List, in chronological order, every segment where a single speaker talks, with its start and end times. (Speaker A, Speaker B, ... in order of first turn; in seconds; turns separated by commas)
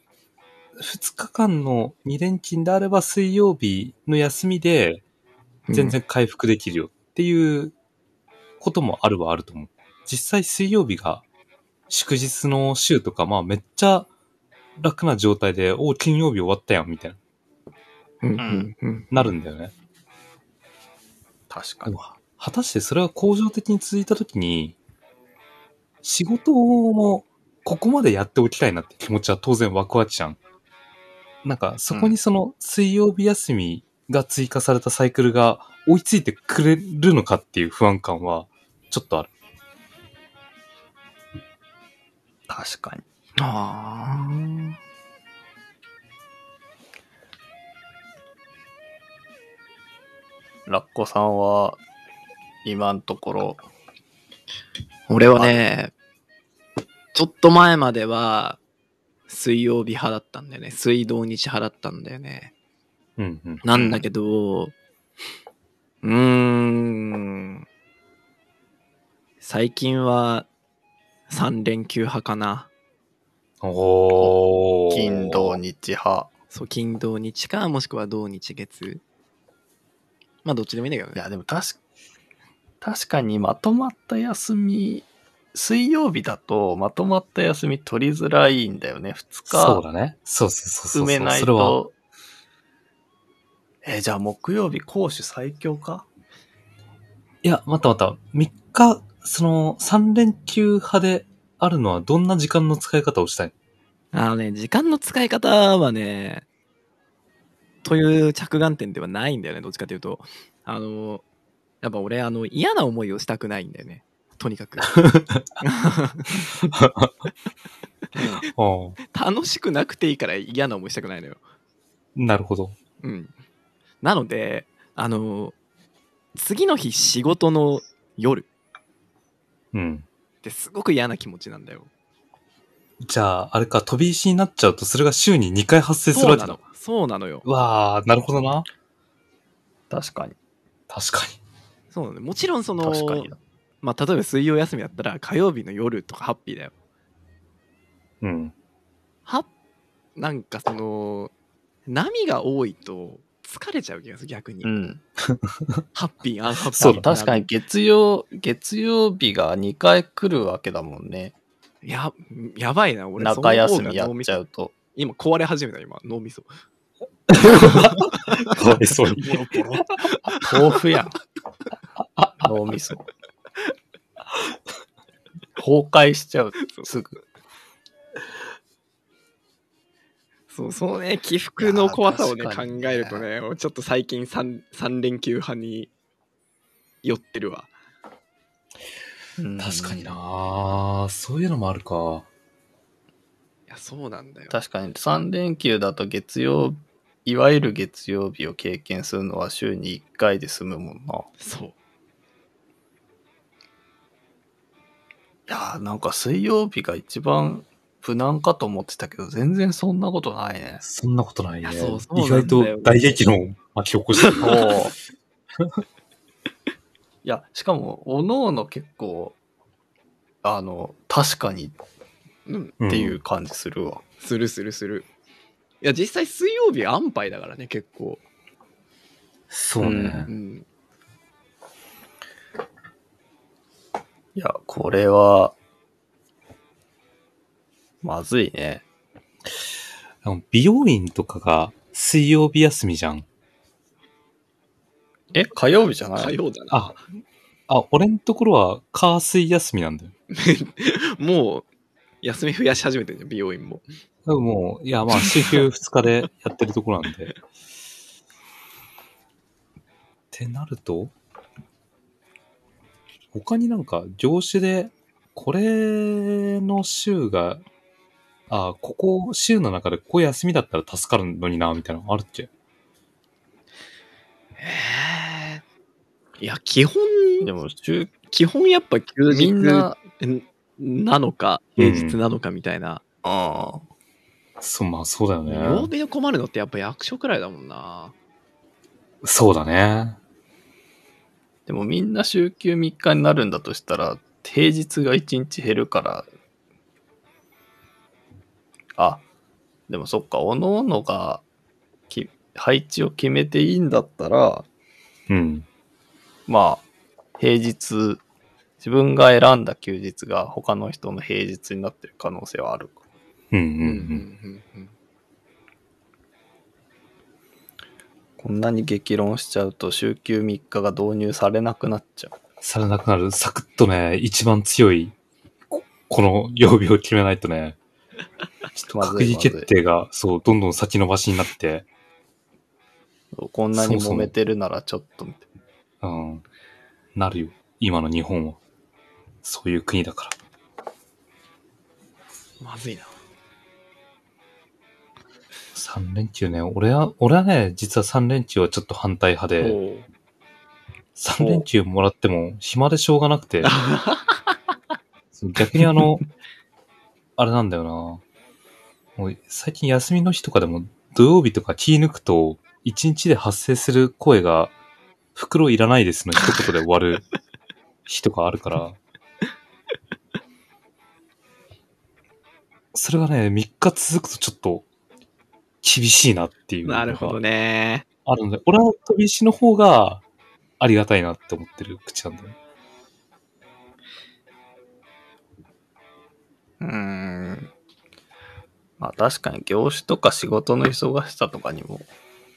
Speaker A: 0.8-5.0, Speaker B: 5.7-6.0, Speaker A: 5.7-7.8, Speaker A: 8.6-11.2, Speaker A: 11.9-14.1, Speaker A: 14.8-17.2, Speaker B: 18.2-19.1, Speaker C: 18.4-18.7, Speaker A: 19.1-19.7, Speaker C: 21.5-21.9, Speaker A: 21.9-24.8, Speaker A: 26.0-30.4, Speaker A: 31.4-39.3, Speaker C: 31.9-32.2, Speaker C: 42.5-43.0, Speaker B: 43.4-44.8, Speaker C: 50.7-51.8, Speaker C: 52.6-53.6, Speaker B: 55.1-55.9, Speaker C: 55.4-55.6, Speaker B: 57.1-58.6, Speaker B: 59.3-62.5, Speaker A: 63.2-63.6, Speaker B: 63.6-64.8, Speaker C: 63.7-64.0, Speaker B: 66.0-67.7, Speaker B: 69.4-70.5, Speaker B: 71.3-72.7, Speaker A: 73.6-75.6, Speaker C: 74.9-76.3, Speaker B: 76.5-79.0, Speaker B: 80.5-81.2, Speaker C: 81.2-81.8, Speaker C: 82.8-89.8, Speaker A: 89.5-91.8, Speaker C: 90.9-91.9, Speaker C: 93.8-96.1, Speaker A: 97.4-103.5, Speaker B: 104.1-106.5, Speaker B: 107.8-111.2, Speaker B: 111.8-115.0, Speaker A: 115.0-115.4, Speaker B: 115.6-116.5, Speaker A: 116.7-117.1, Speaker C: 118.2-118.4, Speaker A: 118.5-119.0, Speaker B: 119.1-121.4, Speaker A: 122.2-122.8, Speaker B: 123.0-123.3, Speaker B: 124.0-125.5, Speaker B: 126.3-128.5, Speaker A: 129.7-130.1, Speaker B: 130.4-131.9, Speaker A: 133.0-136.6, Speaker B: 136.1-137.4, Speaker A: 137.4-138.7, Speaker C: 139.9-140.4, Speaker A: 140.9-141.4, Speaker B: 141.9-143.3, Speaker C: 142.8-143.4, Speaker B: 143.8-146.7, Speaker A: 148.2-148.5, Speaker B: 150.2-151.3, Speaker B: 151.9-154.7, Speaker C: 154.6-155.0, Speaker A: 155.2-155.8, Speaker B: 155.9-157.5, Speaker A: 156.8-157.1, Speaker C: 156.8-161.3, Speaker B: 161.8-164.4, Speaker C: 163.2-164.7, Speaker B: 164.9-166.5, Speaker A: 167.3-169.6, Speaker B: 167.4-168.5, Speaker C: 169.2-169.9, Speaker B: 170.2-170.5, Speaker C: 170.4-171.2, Speaker C: 172.4-173.1, Speaker C: 175.6-177.2, Speaker B: 180.5-185.9, Speaker C: 181.6-183.3, Speaker B: 187.0-187.7, Speaker C: 189.4-190.2, Speaker A: 189.6-192.3, Speaker B: 193.7-194.5, Speaker C: 194.5-201.3, Speaker B: 201.4-201.7, Speaker C: 205.5-210.8, Speaker A: 210.8-214.7, Speaker B: 211.6-213.1, Speaker B: 214.2-214.8, Speaker C: 214.4-214.9, Speaker C: 217.2-219.4, Speaker C: 220.4-221.8, Speaker B: 222.5-222.8, Speaker A: 222.8-223.2, Speaker C: 222.9-224.0, Speaker B: 224.2-225.1, Speaker B: 225.8-228.2, Speaker A: 229.5-230.3, Speaker C: 229.8-230.2, Speaker B: 229.8-230.7, Speaker C: 234.4-235.6, Speaker C: 238.0-238.8, Speaker A: 240.2-243.3, Speaker C: 245.3-246.3, Speaker B: 246.2-246.9, Speaker A: 246.7-247.0, Speaker A: 247.7-250.1, Speaker B: 250.3-251.7, Speaker B: 252.2-253.9, Speaker A: 254.2-257.4, Speaker B: 255.1-255.7, Speaker A: 260.3-261.1, Speaker A: 263.3-267.6, Speaker A: 268.5-272.5, Speaker B: 274.6-275.6, Speaker B: 276.4-277.5, Speaker C: 277.4-278.1, Speaker B: 278.3-283.0, Speaker C: 279.3-280.0, Speaker A: 281.8-282.2, Speaker C: 283.2-283.8, Speaker A: 284.6-285.9, Speaker B: 285.4-288.1, Speaker A: 289.2-290.2, Speaker C: 291.7-296.3, Speaker C: 299.0-299.2, Speaker C: 299.9-301.4, Speaker C: 302.1-304.7, Speaker A: 305.3-305.7, Speaker C: 306.5-306.9, Speaker C: 307.4-308.2, Speaker C: 308.8-313.0, Speaker A: 313.5-314.2, Speaker B: 313.8-314.9, Speaker C: 318.4-322.3, Speaker A: 322.6-325.2, Speaker A: 325.7-327.8, Speaker A: 328.8-331.9, Speaker C: 328.9-329.7, Speaker C: 333.3-335.4, Speaker A: 333.7-334.3, Speaker A: 336.0-336.4, Speaker A: 337.1-338.6, Speaker A: 339.4-340.4, Speaker B: 342.6-343.1, Speaker A: 345.7-349.8, Speaker B: 349.6-350.1, Speaker A: 351.2-353.8, Speaker B: 353.6-354.6, Speaker A: 355.3-356.2, Speaker A: 357.4-358.2, Speaker A: 359.2-364.7, Speaker A: 365.4-367.2, Speaker B: 366.4-366.7, Speaker A: 368.1-369.0, Speaker A: 372.9-374.9, Speaker A: 375.8-377.4, Speaker B: 376.9-378.1, Speaker A: 378.2-380.2, Speaker A: 380.8-382.6, Speaker C: 386.8-387.7, Speaker C: 389.0-392.1